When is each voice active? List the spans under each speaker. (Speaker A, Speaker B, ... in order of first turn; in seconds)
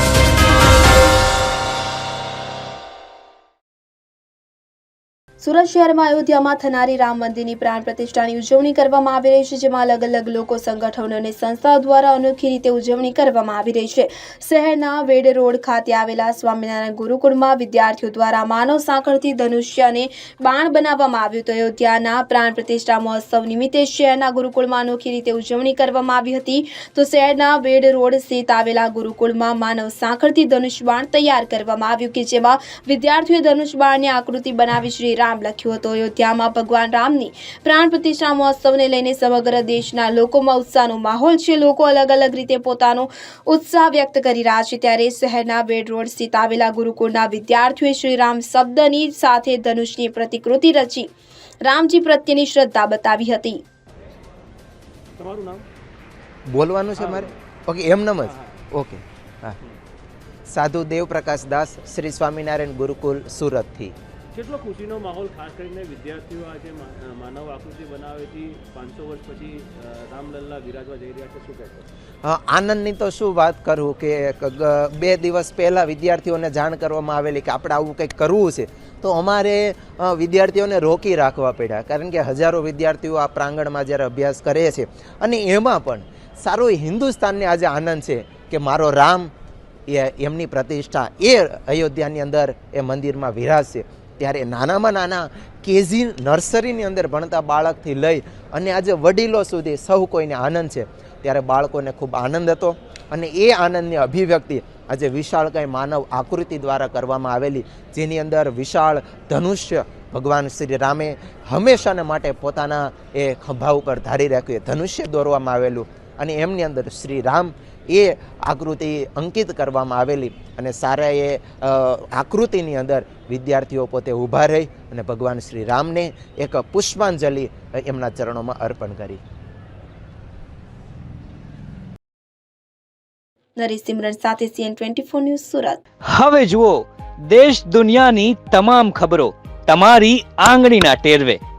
Speaker A: 5.4-51.1, 51.6-53.6, 133.6-135.8
Speaker B: 55.2-55.6, 57.0-57.3, 58.2-58.6, 64.3-71.9
Speaker C: 56.5-59.6, 60.5-63.9, 72.2-89.3, 89.9-129.2
Speaker D: 136.1-141.4